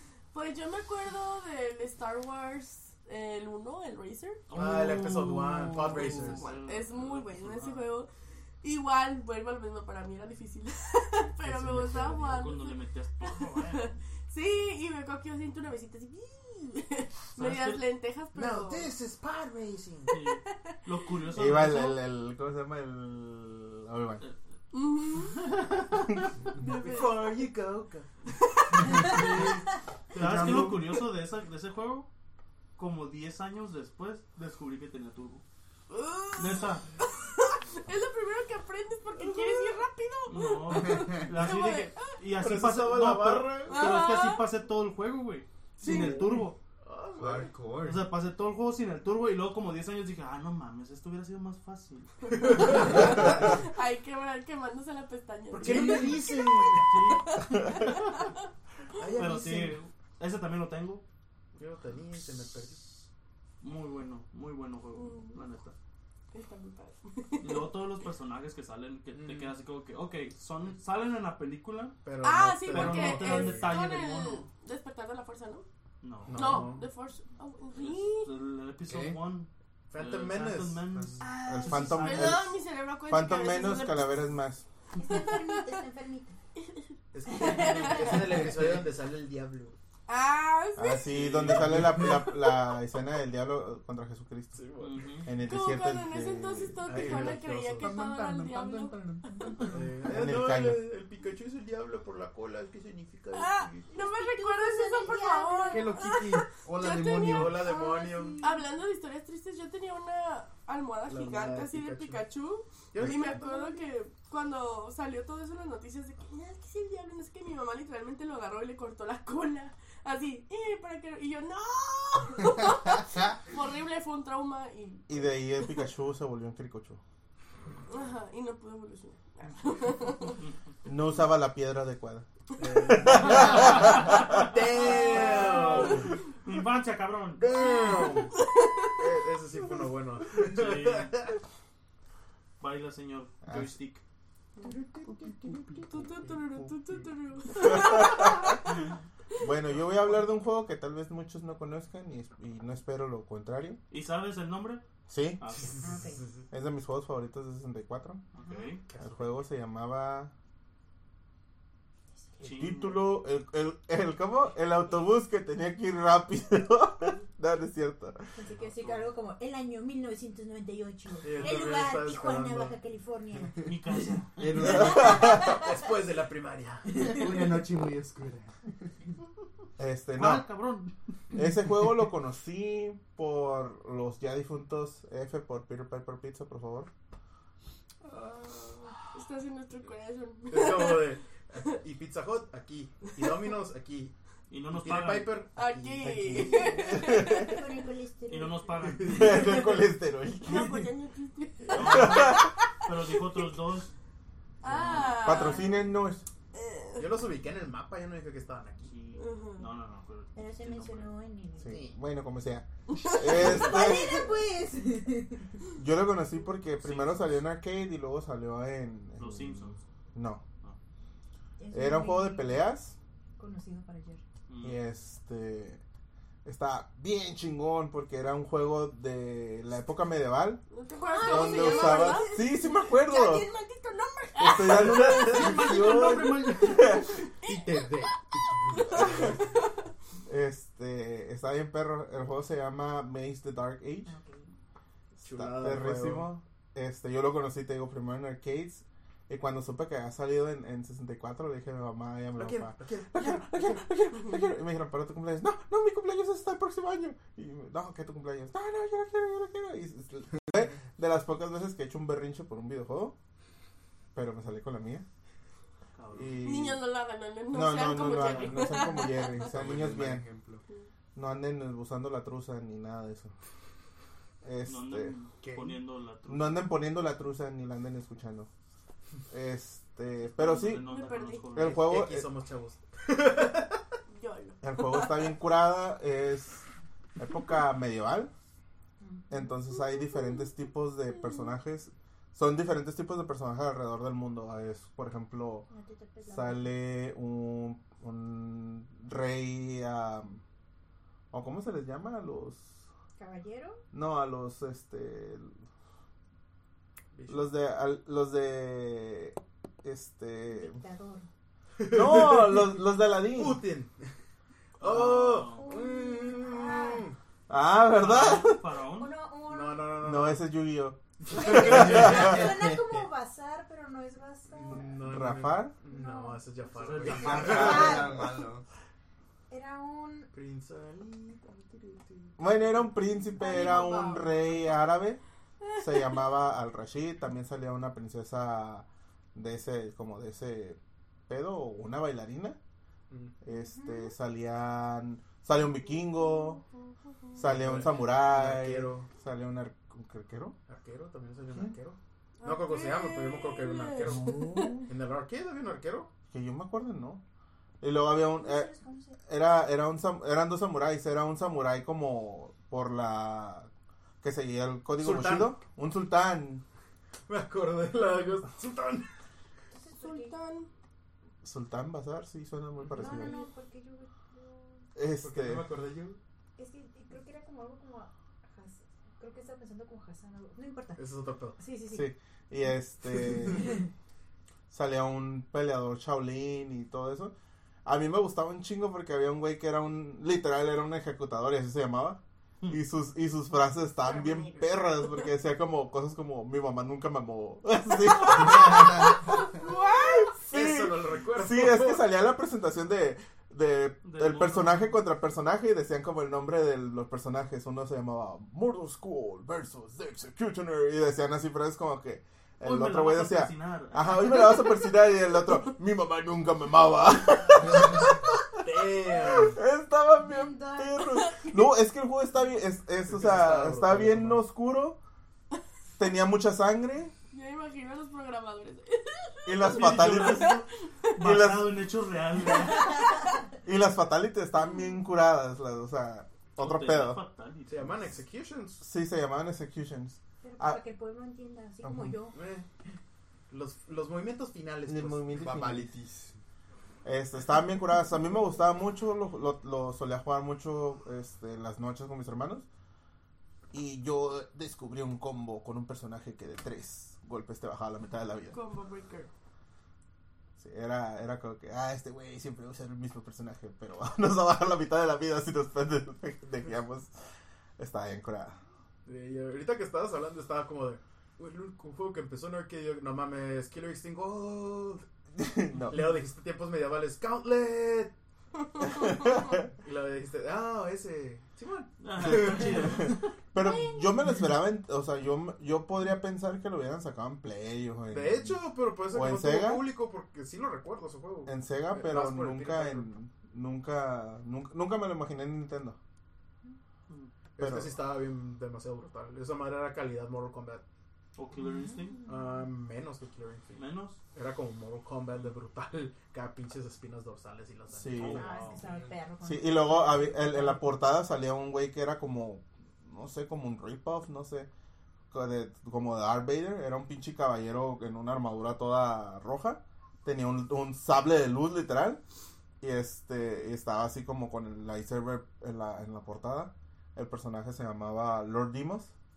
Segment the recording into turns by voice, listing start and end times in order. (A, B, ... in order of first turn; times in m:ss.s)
0:00.3-0:04.4 A
0:04.5-0:07.9 B
0:04.5-0:06.4 C
0:05.9-0:06.4 D
0:06.3-0:08.1 A
0:08.6-0:18.9 A
0:11.4-0:12.4 C
0:12.3-0:13.9 B
0:17.4-0:17.8 B
0:18.4-0:20.2 C
0:20.1-0:22.0 B
0:21.3-0:24.2 E
0:24.7-0:25.4 A
0:25.4-0:26.1 B
0:26.6-0:27.4 A
0:26.6-0:28.1 C
0:28.9-0:32.1 B
0:29.0-0:29.5 C
0:30.2-0:30.8 E
0:30.2-0:30.7 C
0:32.8-0:35.4 B
0:35.9-0:42.2 A
0:36.4-0:36.9 B
0:40.3-0:46.6 B
0:40.8-0:41.2 D
0:42.3-0:44.0 C
0:43.7-0:44.5 A
0:45.8-0:46.4 A
0:45.8-0:47.6 C
0:47.1-0:48.1 D
0:47.8-0:53.2 B
0:52.3-0:58.3 A
0:52.6-0:53.3 C
0:55.5-0:57.1 C
0:55.7-0:56.1 B
0:56.9-0:58.3 B
0:59.0-0:59.8 C
0:59.1-1:01.0 B
1:01.6-1:03.0 C
1:03.6-1:05.8 B
1:04.9-1:05.4 A
1:06.3-1:07.8 A
1:07.4-1:12.0 B
1:09.1-1:09.5 C
1:12.0-1:13.7 C
1:12.2-1:15.7 A
1:12.7-1:14.5 B
1:16.0-1:16.7 B
1:16.3-1:16.9 C
1:16.3-1:18.3 A
1:17.8-1:22.4 B
1:18.9-1:19.2 D
1:19.9-1:20.8 C
1:20.9-1:21.2 D
1:21.2-1:24.3 A
1:21.4-1:24.6 E
1:25.0-1:26.4 F
1:25.0-1:25.8 A
1:26.6-1:28.2 A
1:27.1-1:29.8 C
1:27.4-1:28.2 F
1:28.3-1:28.8 D
1:30.1-1:31.4 A
1:30.8-1:34.7 E
1:31.1-1:32.0 B
1:31.8-1:32.1 D
1:34.5-1:35.0 C
1:34.8-1:35.3 B
1:35.2-1:37.4 E
1:35.4-1:39.6 A
1:36.8-1:38.0 C
1:37.8-1:39.8 D
1:39.7-1:43.9 C
1:40.0-1:40.8 E
1:43.3-2:05.4 A
1:43.9-1:46.1 F
1:45.7-1:47.7 D
1:47.2-1:48.4 C
1:47.7-1:48.6 F
1:51.1-1:52.2 C
1:52.9-1:53.6 C
2:05.1-2:07.0 E
2:07.9-2:10.4 A
2:10.8-2:12.3 E
2:12.6-2:16.1 C
2:12.8-2:14.4 E
2:13.6-2:14.3 B
2:14.7-2:16.1 A
2:14.9-2:17.5 B
2:17.4-2:18.4 C
2:17.5-2:19.0 A
2:19.0-2:21.3 C
2:20.4-2:21.3 B
2:22.6-2:24.0 B
2:23.5-2:23.7 E
2:25.5-2:25.8 D
2:25.5-2:26.7 E
2:25.8-2:28.7 A
2:27.6-2:28.6 E
2:29.4-2:33.8 E
2:33.9-2:34.8 B
2:35.1-2:35.4 E
2:35.4-2:36.0 B
2:35.8-2:36.3 C
2:35.8-2:36.3 F
2:36.5-2:38.2 E
2:38.3-2:38.8 B
2:38.8-2:39.4 C
2:39.0-2:40.3 E
2:42.2-2:42.6 F
2:42.4-2:43.0 B
2:42.4-2:48.3 E
2:48.4-2:53.8 F
2:51.2-2:52.8 C
2:53.6-2:54.8 B
2:54.4-2:55.4 D
2:54.7-2:55.5 E
2:54.9-2:57.2 C
2:55.1-2:55.8 F
2:56.9-2:58.9 D
2:59.8-3:00.5 E
3:00.2-3:00.9 B
3:01.3-3:06.9 E
3:09.1-3:11.1 A
3:10.5-3:14.1 C
3:14.5-3:15.4 B
3:14.7-3:17.0 C
3:15.6-3:17.8 A
3:16.0-3:17.5 E
3:16.6-3:18.8 F
3:18.3-3:19.6 B
3:18.8-3:19.6 C
3:19.1-3:20.9 E
3:20.4-3:22.5 A
3:21.7-3:23.9 B
3:21.8-3:22.5 E
3:23.2-3:23.4 A
3:24.6-3:25.9 A
3:24.7-3:25.4 B
3:24.9-3:26.2 E
3:26.5-3:27.1 A
3:27.0-3:29.0 C
3:28.9-3:31.1 B
3:29.2-3:29.7 A
3:30.4-3:31.8 F
3:31.6-3:34.3 E
3:32.9-3:34.0 A
3:33.3-3:35.5 F
3:35.8-3:40.4 E
3:36.8-3:37.4 B
3:39.2-3:39.8 B
3:41.6-3:42.6 F
3:41.7-3:43.0 E
3:43.4-3:44.2 F
3:44.5-3:44.8 B
3:44.6-3:45.8 E
3:46.4-3:50.6 E
3:50.7-3:55.0 A
3:51.1-3:53.5 F
3:51.2-3:53.5 E
3:54.4-3:57.2 E
3:54.6-3:56.2 C
3:54.8-3:57.0 B
3:57.4-3:58.1 A
3:57.4-3:59.5 C
3:58.7-3:59.7 A
3:58.9-3:59.4 E
4:00.3-4:04.2 E
4:04.1-4:04.5 F
4:05.2-4:06.3 C
4:05.2-4:23.2 E
4:12.4-4:13.8 C
4:24.1-4:25.1 E
4:26.0-4:26.4 B
4:26.1-4:26.8 E
4:26.4-4:29.4 A
4:27.5-4:30.3 E
4:29.4-4:30.6 D
4:31.2-4:33.4 E
4:34.4-4:35.2 E
4:34.6-4:36.7 B
4:36.3-4:38.5 E
4:39.3-4:41.0 E
4:40.3-4:41.9 B
4:40.8-4:41.5 A
4:41.5-4:42.3 E
4:41.6-4:43.8 C
4:44.1-4:45.3 A
4:44.6-4:48.3 E
4:49.0-4:49.4 F
4:49.3-4:55.7 E
4:50.0-4:50.4 A
4:55.7-4:56.7 F
4:56.3-5:00.4 E
5:01.3-5:02.9 E
5:03.2-5:03.8 F
5:03.9-5:05.6 E
5:07.1-5:07.5 C
5:07.3-5:10.8 E
5:10.5-5:11.3 F
5:11.8-5:14.1 C
5:11.9-5:13.6 E
5:14.8-5:15.8 B
5:14.8-5:17.2 C
5:15.3-5:17.1 F
5:17.5-5:18.6 E
5:17.9-5:19.2 B
5:18.9-5:20.0 F
5:19.5-5:20.4 C
5:20.0-5:22.4 E
5:21.3-5:21.6 C
5:21.3-5:25.0 F
5:21.6-5:23.0 D
5:24.6-5:28.1 C
5:25.0-5:25.8 E
5:25.8-5:26.5 F
5:26.7-5:28.0 B
5:27.0-5:28.6 D
5:27.4-5:28.5 F
5:29.5-5:30.3 F
5:30.3-5:32.6 C
5:32.4-5:35.2 E
5:33.4-5:34.4 F
5:33.6-5:33.8 A
5:35.6-5:36.2 A
5:35.8-5:42.6 E
5:43.1-5:43.4 C
5:43.4-5:46.6 E
5:43.5-5:44.1 F
5:45.9-5:46.9 A
5:47.4-5:50.6 E
5:47.4-5:49.1 C
5:50.7-5:56.1 C
5:52.4-5:54.7 A
5:54.0-5:54.9 E
5:56.3-5:57.2 E
5:57.8-5:58.7 E
5:58.2-5:59.2 F
5:59.2-6:03.7 E
6:04.2-6:06.6 E
6:05.0-6:05.6 C
6:07.3-6:09.1 C
6:09.7-6:10.3 F
6:10.0-6:10.7 A
6:11.4-6:13.4 E
6:12.8-6:13.1 C
6:12.9-6:14.9 F
6:15.0-6:15.7 E
6:15.2-6:16.2 C
6:16.6-6:21.0 F
6:21.0-6:21.6 C
6:21.6-6:22.1 F
6:21.9-6:23.8 E
6:24.7-6:27.3 E
6:27.8-7:05.0 E
6:34.0-6:35.2 A
6:38.2-6:40.4 A
6:40.5-6:42.1 C
6:44.0-6:45.0 B
6:52.6-6:54.7 B
6:58.6-6:59.6 C
7:00.2-7:01.1 F
7:03.0-7:04.4 C
7:06.0-7:07.1 E
7:07.3-7:10.6 A
7:09.5-7:10.6 E
7:09.6-7:13.1 B
7:11.2-7:11.8 E
7:13.6-7:17.2 E
7:16.6-7:18.1 B
7:17.7-7:18.8 C
7:18.8-7:20.8 E
7:20.4-7:22.4 F
7:21.8-7:22.2 E
7:22.3-7:22.7 C
7:23.5-7:25.4 C
7:24.9-7:25.9 E
7:25.3-7:26.4 D
7:27.0-7:32.7 E
7:33.7-7:38.6 E
7:38.5-7:39.3 A
7:40.6-7:47.1 E
7:47.8-7:48.6 E
7:49.1-7:55.0 C
7:55.4-7:56.2 E
7:55.9-7:58.1 C
7:58.7-7:59.5 A
7:58.9-7:59.6 E
7:59.7-8:03.0 C
8:02.0-8:03.3 B
8:02.2-8:09.9 E
8:08.1-8:13.1 C
8:11.5-8:16.0 E
8:17.6-8:20.8 C
8:17.6-8:18.0 E
8:21.4-8:22.2 B
8:21.6-8:22.6 F
8:22.3-8:28.8 C
8:23.8-8:24.2 B
8:27.9-8:28.5 E
8:28.2-8:28.9 B
8:28.2-8:30.9 F
8:29.4-8:34.7 E
8:35.3-8:42.2 E
8:42.8-8:49.1 E